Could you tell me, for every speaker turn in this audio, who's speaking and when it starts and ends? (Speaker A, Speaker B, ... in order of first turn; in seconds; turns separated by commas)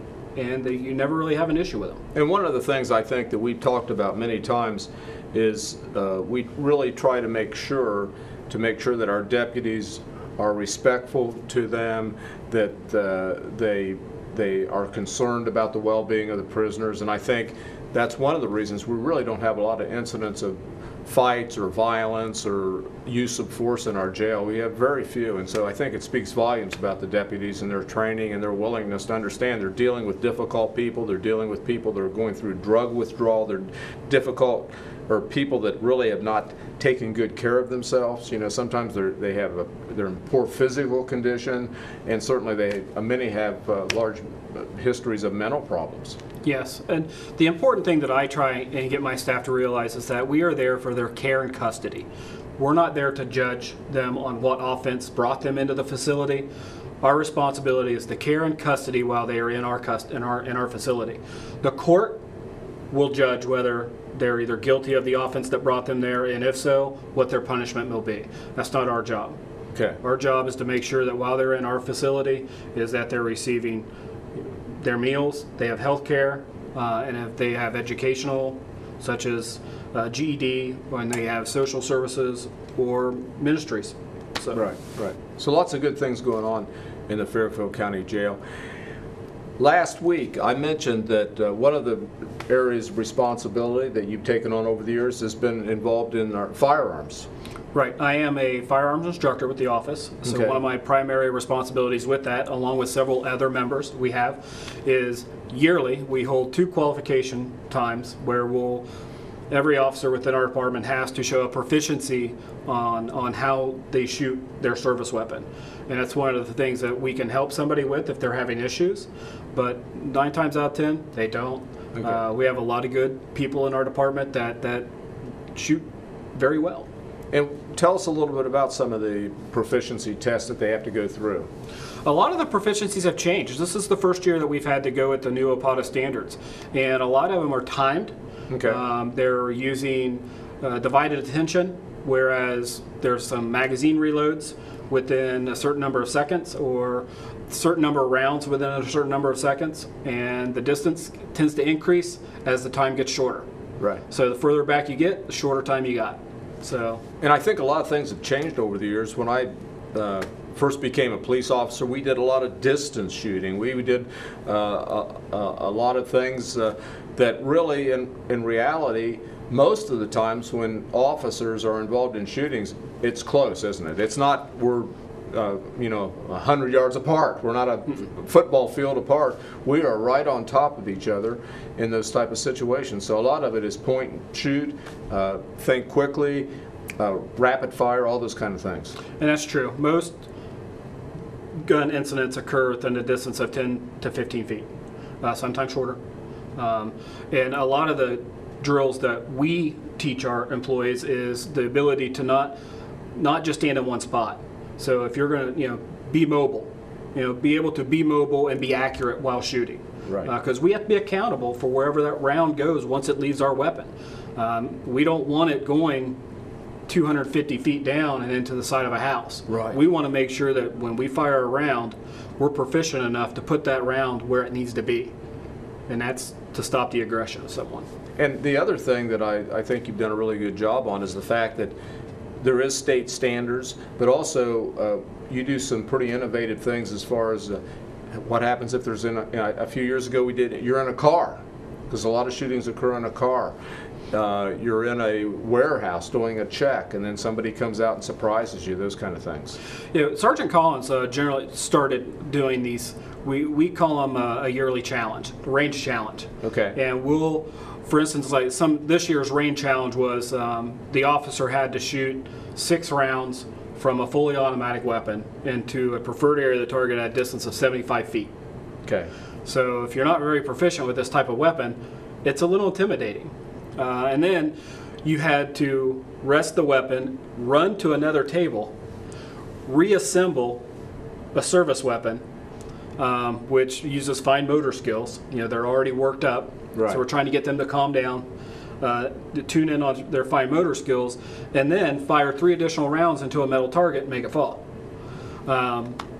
Speaker A: 0.4-2.0, Speaker B: 2.1-46.2, Speaker A: 46.4-56.5, Speaker A: 57.0-62.2, Speaker A: 62.9-69.4, Speaker A: 70.0-73.9, Speaker A: 74.8-84.7, Speaker B: 84.5-88.4, Speaker B: 89.6-97.3, Speaker A: 97.7-108.9, Speaker B: 100.2-100.6, Speaker A: 109.5-124.9, Speaker B: 122.0-122.2, Speaker A: 125.5-126.9, Speaker B: 127.3-131.5, Speaker A: 132.1-153.5, Speaker B: 138.5-138.8, Speaker A: 154.1-157.0, Speaker B: 157.2-188.9, Speaker A: 189.2-190.2, Speaker A: 191.6-194.7, Speaker A: 195.2-196.0, Speaker A: 196.6-202.6, Speaker A: 203.1-216.2, Speaker B: 210.1-210.3, Speaker A: 216.9-225.1, Speaker B: 219.5-219.8, Speaker A: 225.9-227.9, Speaker B: 228.2-231.8, Speaker B: 232.4-237.6, Speaker B: 238.1-243.6, Speaker B: 244.1-249.6, Speaker A: 249.9-268.3, Speaker B: 256.4-256.8, Speaker A: 269.4-278.7, Speaker A: 279.7-280.6, Speaker A: 281.3-282.2, Speaker A: 283.0-288.3, Speaker B: 286.7-287.0, Speaker A: 288.8-294.6, Speaker A: 295.5-296.0